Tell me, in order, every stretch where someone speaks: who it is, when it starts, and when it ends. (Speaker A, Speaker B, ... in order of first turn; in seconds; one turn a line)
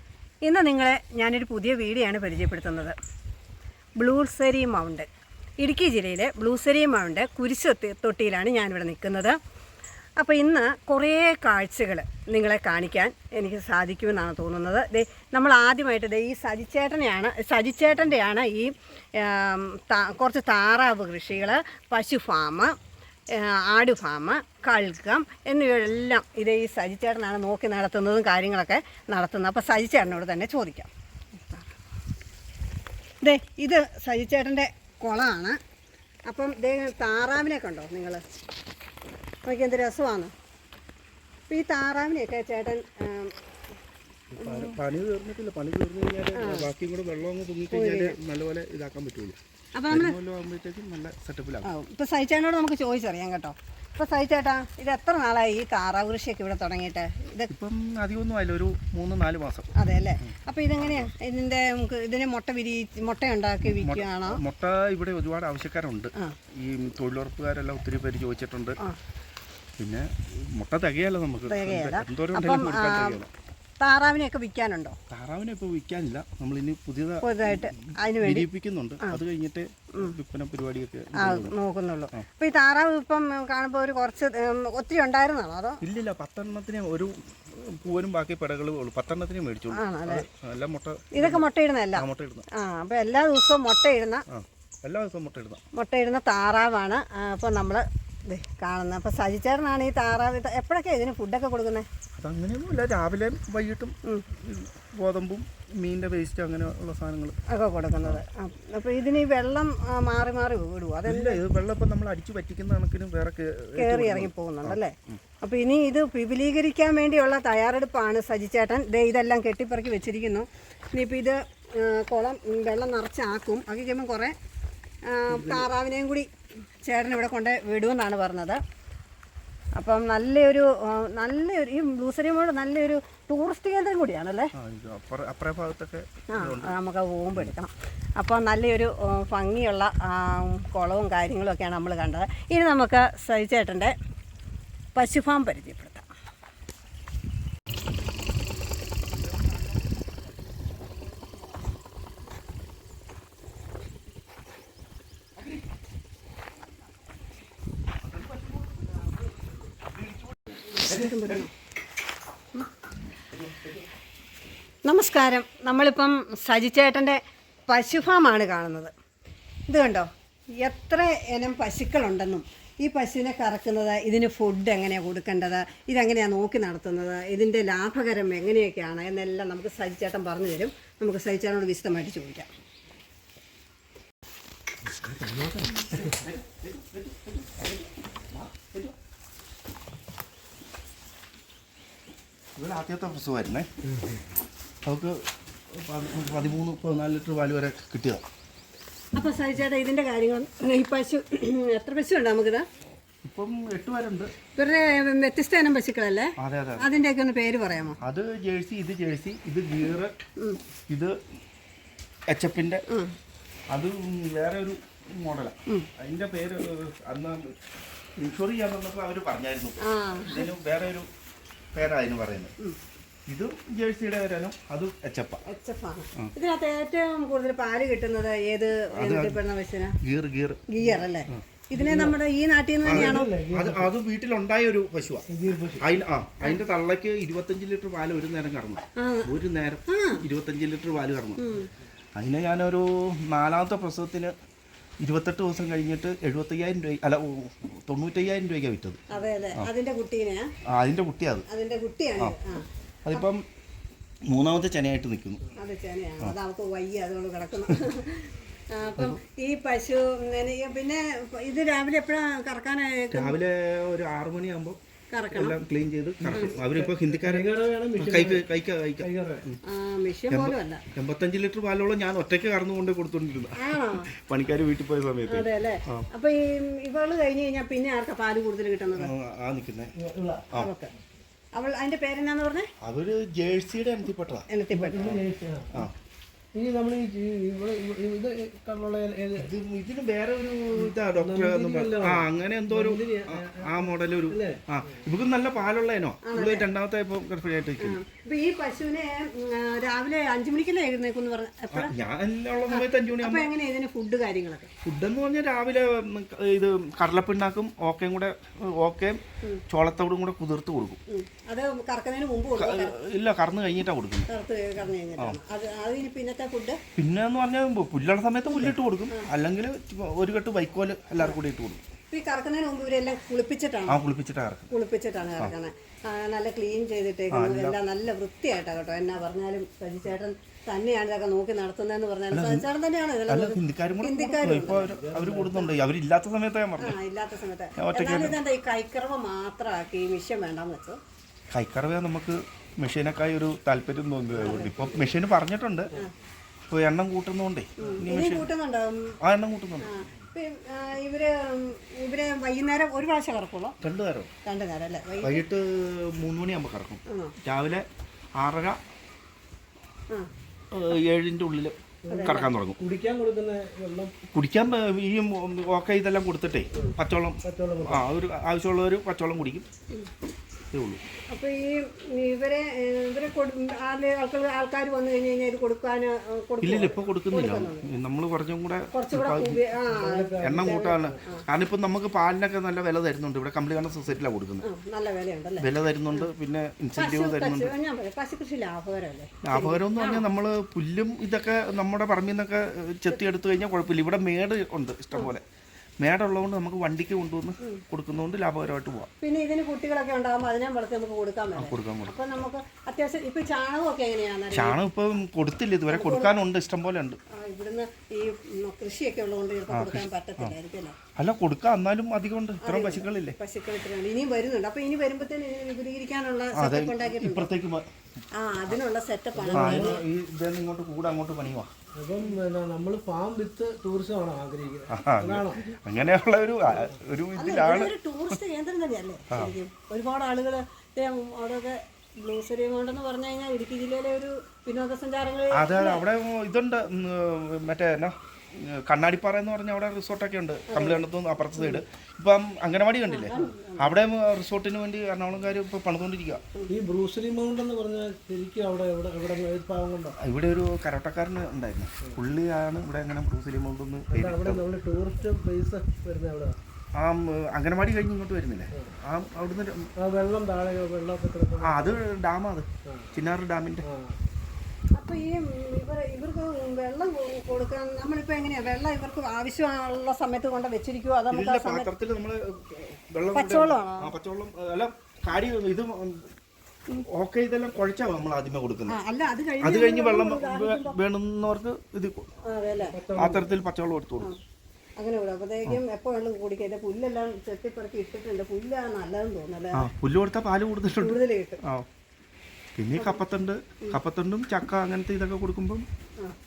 Speaker A: 0.4-3.0
Speaker A: 4.0-5.1
Speaker A: 5.6-9.4
Speaker A: 10.2-22.7
Speaker A: 23.3-31.7
Speaker A: 33.2-35.6
Speaker A: 36.3-38.2
Speaker A: 39.5-40.3
Speaker A: 41.5-43.4
Speaker B: 44.3-49.4
Speaker A: 44.4-44.8
Speaker A: 46.4-46.7
Speaker A: 47.7-48.2
Speaker A: 49.8-50.2
Speaker B: 49.9-51.7
Speaker A: 51.6-57.5
Speaker B: 57.5-59.7
Speaker A: 59.8-64.4
Speaker B: 60.2-61.1
Speaker B: 63.6-68.8
Speaker B: 69.8-73.3
Speaker A: 71.5-73.2
Speaker A: 73.8-75.0
Speaker B: 75.1-81.6
Speaker A: 77.2-78.5
Speaker A: 81.2-85.8
Speaker B: 85.8-91.5
Speaker A: 89.7-90.2
Speaker A: 91.1-94.2
Speaker B: 92.0-92.5
Speaker B: 94.3-95.6
Speaker A: 95.8-101.9
Speaker B: 102.2-107.4
Speaker A: 107.5-111.4
Speaker B: 111.1-115.2
Speaker A: 113.8-124.3
Speaker A: 125.1-126.3
Speaker B: 125.3-125.7
Speaker A: 126.8-128.6
Speaker A: 129.8-134.5
Speaker B: 134.6-136.8
Speaker A: 136.3-143.9
Speaker A: 144.9-146.1
Speaker B: 158.0-159.1
Speaker B: 159.8-161.4
Speaker A: 160.8-161.5
Speaker B: 163.3-163.9
Speaker A: 164.8-168.9
Speaker A: 169.7-182.5
Speaker C: 185.1-186.0
Speaker B: 185.7-188.9
Speaker B: 192.6-193.7
Speaker B: 194.8-195.2
Speaker B: 195.7-198.2
Speaker A: 199.1-202.7
Speaker B: 203.2-204.3
Speaker A: 204.5-208.0
Speaker B: 206.4-206.9
Speaker B: 208.0-210.1
Speaker B: 210.9-211.2
Speaker B: 212.3-212.8
Speaker A: 212.9-213.1
Speaker B: 213.7-217.6
Speaker B: 218.2-221.1
Speaker A: 219.8-220.5
Speaker B: 221.7-222.5
Speaker B: 223.3-225.4
Speaker A: 225.5-230.0
Speaker B: 228.9-229.4
Speaker B: 230.0-230.7
Speaker A: 230.7-233.3
Speaker C: 231.7-232.2
Speaker B: 232.8-235.3
Speaker C: 232.9-233.9
Speaker C: 235.3-235.8
Speaker B: 235.8-241.4
Speaker A: 239.0-239.3
Speaker A: 239.9-240.2
Speaker A: 241.4-241.7
Speaker B: 242.2-244.3
Speaker B: 245.0-249.0
Speaker A: 249.1-250.5
Speaker B: 250.7-251.5
Speaker A: 251.5-253.2
Speaker B: 253.1-253.4
Speaker B: 254.3-255.4
Speaker A: 255.6-263.4
Speaker B: 263.1-264.8
Speaker A: 265.1-265.6
Speaker B: 265.3-269.6
Speaker C: 266.3-268.4
Speaker C: 269.0-269.5
Speaker A: 269.6-270.8
Speaker B: 270.3-276.1
Speaker A: 273.6-274.1
Speaker A: 275.3-279.1
Speaker B: 279.0-279.9
Speaker C: 280.0-280.5
Speaker A: 280.6-280.9
Speaker A: 281.6-282.7
Speaker B: 282.8-284.5
Speaker A: 284.5-285.2
Speaker C: 284.7-285.8
Speaker C: 286.6-289.5
Speaker B: 289.4-298.0
Speaker C: 290.8-294.6
Speaker A: 296.2-296.7
Speaker A: 297.8-301.9
Speaker B: 301.7-303.5
Speaker A: 302.7-304.7
Speaker B: 304.9-311.0
Speaker A: 311.1-312.9
Speaker B: 312.6-314.3
Speaker A: 314.3-316.8
Speaker B: 317.0-321.8
Speaker A: 318.5-319.3
Speaker A: 322.1-324.0
Speaker B: 323.9-324.7
Speaker A: 324.7-334.9
Speaker B: 327.3-327.8
Speaker B: 332.3-332.7
Speaker B: 333.3-337.0
Speaker C: 334.8-335.7
Speaker A: 336.8-341.0
Speaker B: 337.8-338.4
Speaker B: 341.5-345.9
Speaker A: 344.4-345.1
Speaker B: 346.7-348.5
Speaker A: 347.8-349.2
Speaker B: 349.2-349.9
Speaker A: 349.8-353.8
Speaker B: 353.8-354.3
Speaker A: 354.4-355.4
Speaker B: 355.2-357.9
Speaker A: 357.1-357.3
Speaker B: 358.4-358.8
Speaker B: 360.7-362.8
Speaker C: 362.1-364.1
Speaker A: 362.1-362.5
Speaker B: 364.3-369.7
Speaker C: 366.8-368.1
Speaker B: 370.7-371.0
Speaker A: 371.3-377.9
Speaker B: 376.6-379.6
Speaker A: 378.9-381.4
Speaker C: 379.6-381.2
Speaker B: 380.4-384.7
Speaker A: 384.6-386.3
Speaker B: 385.6-387.7
Speaker A: 387.0-390.2
Speaker B: 389.4-395.4
Speaker B: 396.0-399.1
Speaker A: 399.2-404.8
Speaker B: 401.6-402.1
Speaker B: 404.5-407.2
Speaker A: 405.9-406.3
Speaker A: 407.3-411.0
Speaker B: 409.7-410.6
Speaker B: 411.2-413.4
Speaker A: 412.6-417.5
Speaker B: 416.6-417.9
Speaker A: 418.4-420.0
Speaker C: 419.4-420.0
Speaker B: 419.5-421.7
Speaker C: 422.0-425.6
Speaker B: 424.9-428.4
Speaker A: 427.4-436.0
Speaker B: 435.5-446.5
Speaker A: 440.7-441.1
Speaker A: 441.6-441.8
Speaker A: 443.1-444.0
Speaker C: 446.7-450.2
Speaker B: 450.2-454.6
Speaker C: 454.1-456.6
Speaker B: 457.0-459.9
Speaker C: 460.0-462.1
Speaker B: 461.6-463.9
Speaker C: 462.9-463.1
Speaker C: 463.8-464.2
Speaker A: 464.9-471.9
Speaker B: 471.3-476.3
Speaker A: 473.3-474.1
Speaker B: 477.0-479.0
Speaker A: 478.9-481.0
Speaker B: 479.6-482.3
Speaker A: 482.5-483.0
Speaker C: 482.8-483.5
Speaker B: 483.1-484.3
Speaker A: 485.0-489.9
Speaker B: 489.8-491.9
Speaker A: 491.0-491.6
Speaker B: 492.8-495.9
Speaker A: 493.0-493.2